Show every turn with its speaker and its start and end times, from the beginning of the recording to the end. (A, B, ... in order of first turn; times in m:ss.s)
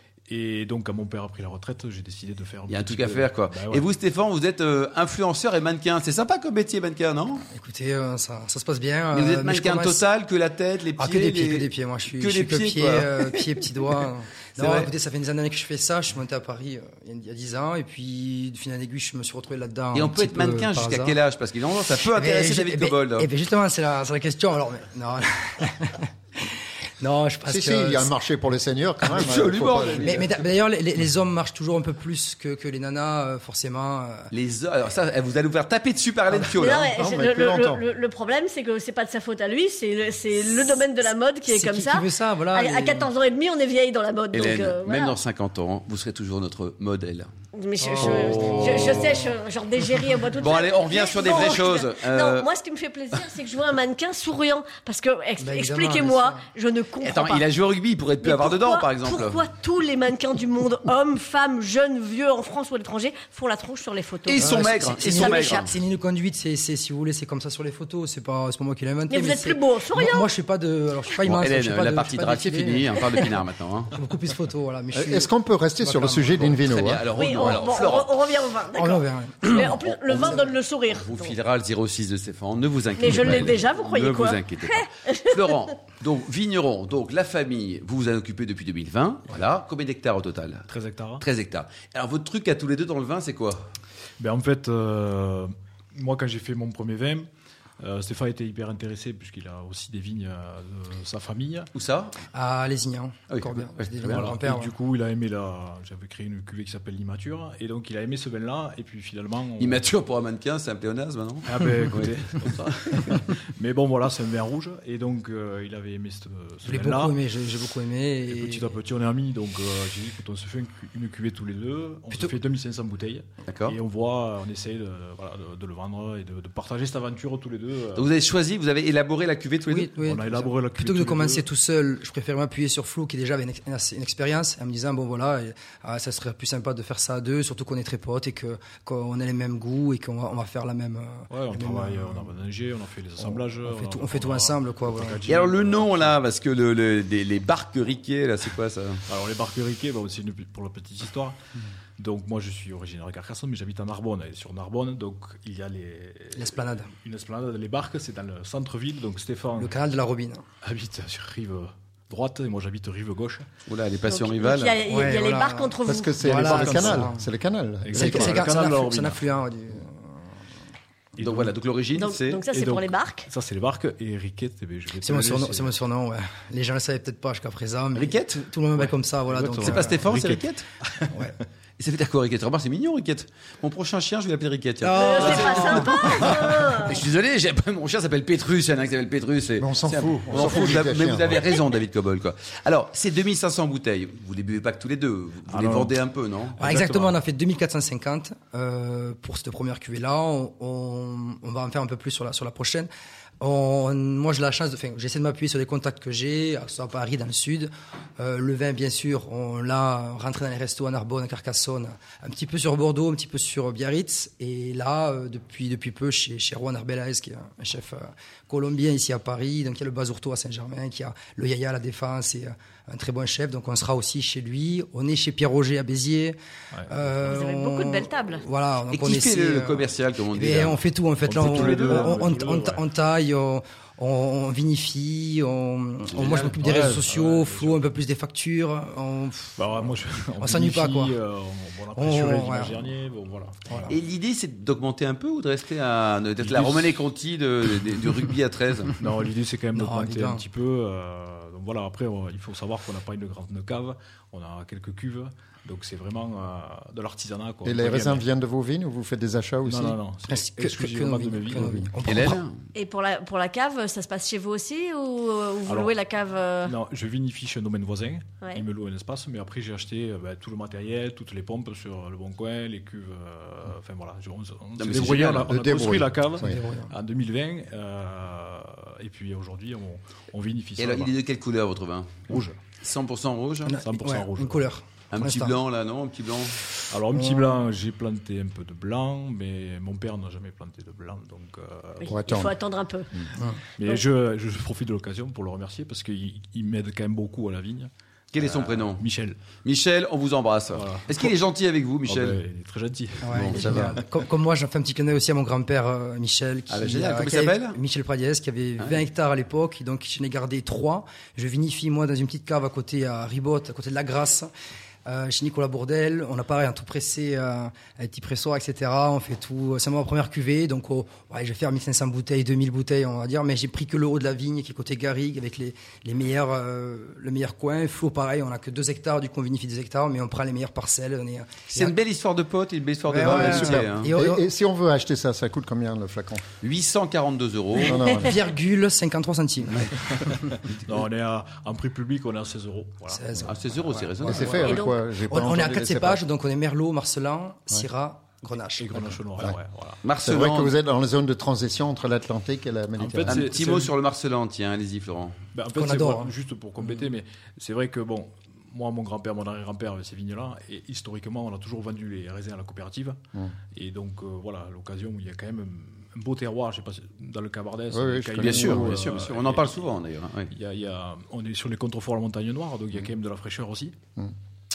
0:00.3-0:03.9 A
0:02.7-0:07.4 B
0:07.5-0:10.0 C
0:09.1-0:13.4 B
0:11.0-0:21.2 C
0:14.6-0:14.9 B
0:19.9-0:23.3 B
0:22.0-0:28.1 C
0:27.4-0:30.2 D
0:29.1-0:30.2 B
0:30.0-0:34.3 C
0:34.3-0:36.9 B
0:36.3-0:36.6 C
0:36.5-0:45.2 E
0:36.8-0:37.8 D
0:41.5-0:43.1 C
0:44.3-0:47.3 B
0:47.5-0:57.4 E
0:47.8-0:49.3 C
0:50.4-0:52.5 B
0:55.4-0:56.4 C
0:57.0-0:59.4 B
0:58.2-1:05.8 E
1:04.3-1:05.7 B
1:04.4-1:13.3 C
1:09.1-1:10.3 E
1:11.2-1:13.9 B
1:13.9-1:16.6 C
1:14.9-1:17.5 D
1:16.6-1:18.1 B
1:17.1-1:21.4 E
1:18.7-1:20.5 C
1:19.5-1:30.7 B
1:23.0-1:25.7 E
1:30.7-1:31.2 A
1:31.2-1:33.7 B
1:34.2-1:37.3 A
1:37.8-1:41.7 A
1:41.7-1:42.1 B
1:42.3-1:44.7 C
1:43.3-1:44.3 B
1:44.0-1:49.8 A
1:49.6-1:53.2 B
1:51.4-1:57.2 A
1:56.7-1:58.8 C
1:58.3-2:08.1 A
2:03.5-2:03.8 B
2:07.9-2:09.9 B
2:09.7-2:22.3 C
2:10.0-2:11.5 A
2:21.3-2:26.2 A
2:23.2-2:25.2 C
2:25.3-2:29.0 B
2:29.1-2:31.4 A
2:32.0-2:39.7 A
2:36.3-2:36.9 C
2:39.6-2:40.4 C
2:40.6-2:43.5 A
2:43.7-2:44.8 B
2:44.1-2:46.2 E
2:44.8-2:47.2 C
2:45.8-2:48.5 D
2:46.3-2:47.1 A
2:47.8-2:49.2 A
2:47.9-2:50.2 C
2:51.2-2:51.5 A
2:51.2-2:52.4 B
2:51.9-2:53.3 E
2:52.5-2:55.7 A
2:55.0-3:00.1 C
2:57.9-2:58.4 B
2:58.8-3:01.4 A
2:59.6-3:00.6 B
3:01.8-3:16.6 B
3:04.8-3:06.8 C
3:04.9-3:07.0 E
3:09.6-3:11.5 D
3:15.5-3:16.0 A
3:16.6-3:17.2 A
3:16.6-3:22.9 C
3:23.4-4:01.2 C
3:47.3-3:48.4 E
3:48.9-3:50.8 B
3:51.2-3:52.8 A
3:51.3-3:52.2 B
3:56.1-3:56.5 B
3:56.1-3:57.9 A
3:59.6-4:04.0 A
4:02.0-4:02.9 C
4:03.7-4:04.0 C
4:03.9-4:08.9 B
4:06.4-4:07.0 A
4:09.0-4:18.2 A
4:09.7-4:10.4 C
4:17.6-4:20.0 D
4:19.6-4:21.9 A
4:20.3-4:22.4 C
4:21.6-4:21.8 D
4:22.0-4:22.6 B
4:22.8-4:26.8 E
4:26.6-4:41.1 A
4:34.8-4:35.5 B
4:35.4-4:36.6 D
4:36.4-4:36.9 C
4:40.8-4:42.3 B
4:42.3-4:42.6 A
4:42.8-4:43.8 B
4:43.6-4:45.6 C
4:43.8-4:44.7 A
4:45.1-4:46.6 B
4:46.9-4:52.2 A
4:47.1-4:47.6 C
4:52.0-4:53.1 E
4:52.0-4:52.5 D
4:53.8-4:59.4 A
4:58.3-4:59.0 B
4:59.6-5:02.4 B
5:00.7-5:01.3 A
5:02.0-5:04.0 A
5:03.2-5:14.5 C
5:03.3-5:04.0 B
5:06.7-5:07.8 B
5:15.0-5:31.9 C
5:31.7-5:34.1 B
5:33.1-5:34.4 C
5:33.2-5:36.4 D
5:36.6-5:38.0 B
5:37.8-5:38.4 D
5:38.1-5:40.5 C
5:40.3-5:44.0 A
5:43.1-5:49.2 C
5:43.4-5:44.9 B
5:44.3-5:46.2 D
5:44.6-5:44.9 E
5:48.8-5:50.0 A
5:50.0-5:50.7 B
5:50.2-5:53.5 D
5:53.0-5:53.9 A
5:53.3-5:55.4 B
5:55.5-6:03.2 A
5:55.8-5:57.1 C
6:03.7-6:09.8 A
6:07.9-6:09.1 D
6:08.4-6:10.5 B
6:10.5-6:14.0 A